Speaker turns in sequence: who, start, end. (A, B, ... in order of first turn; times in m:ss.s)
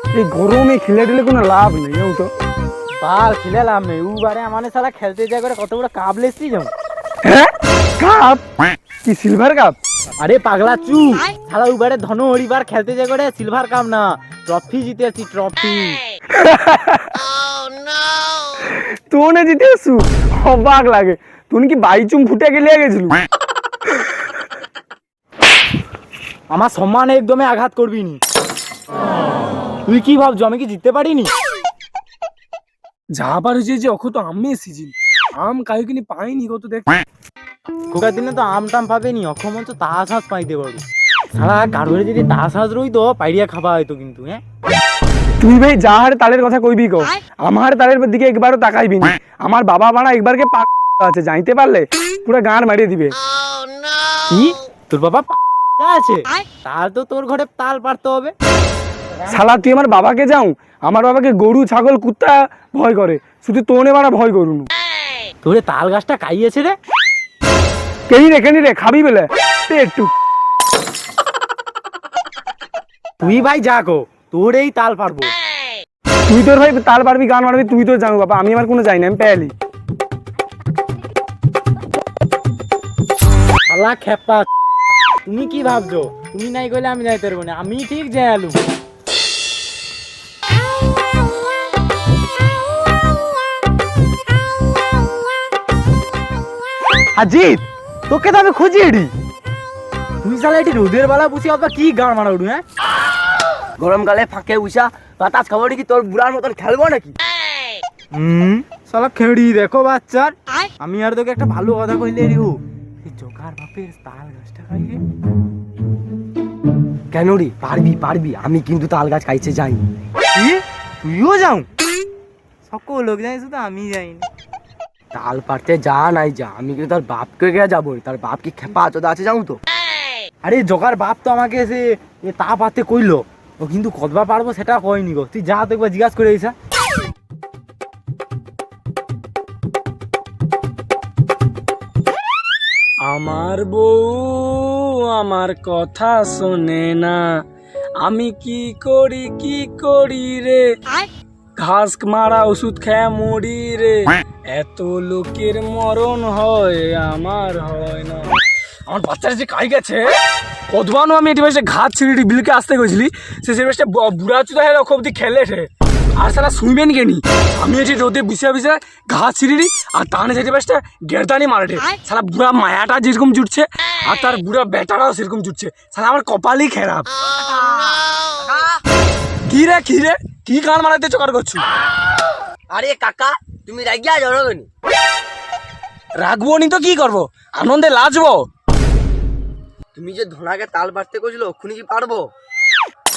0:00.1-0:02.3 A
0:03.0-0:06.7 B
0:07.2-0:08.4 A
0:09.0-0:09.8 A
0:10.2-0:16.0 B
0:16.3-0:17.2 A
0:18.6-0:23.2 A
0:26.5-0:28.2 B
0:29.8-0:31.3 B
0:33.1-0:37.0 A
0:37.9-0:40.8 B
0:41.3-0:44.4 B
0:45.4-0:53.2 A
0:54.3-0:58.3 B
0:59.3-1:04.7 A
1:05.4-1:06.8 B
1:08.1-1:10.1 A
1:13.2-1:15.3 B
1:16.3-1:19.5 A
1:23.7-1:24.5 B
1:25.2-1:28.6 B
1:37.1-1:39.1 B
1:40.2-1:42.6 B
1:43.8-1:47.1 C
1:48.1-1:55.0 B
1:57.1-1:59.8 C
2:00.3-2:01.7 B
2:02.7-2:04.3 B
2:05.1-2:09.6 C
2:10.4-2:16.5 B
2:23.0-2:27.2 A
2:28.0-2:30.6 A
2:31.6-2:38.4 A
2:38.9-2:40.0 A
2:40.7-2:57.1 A
2:58.4-2:58.6 C
2:59.5-3:01.6 A
3:02.7-3:04.7 C
3:06.2-3:08.4 A
3:09.9-3:12.3 C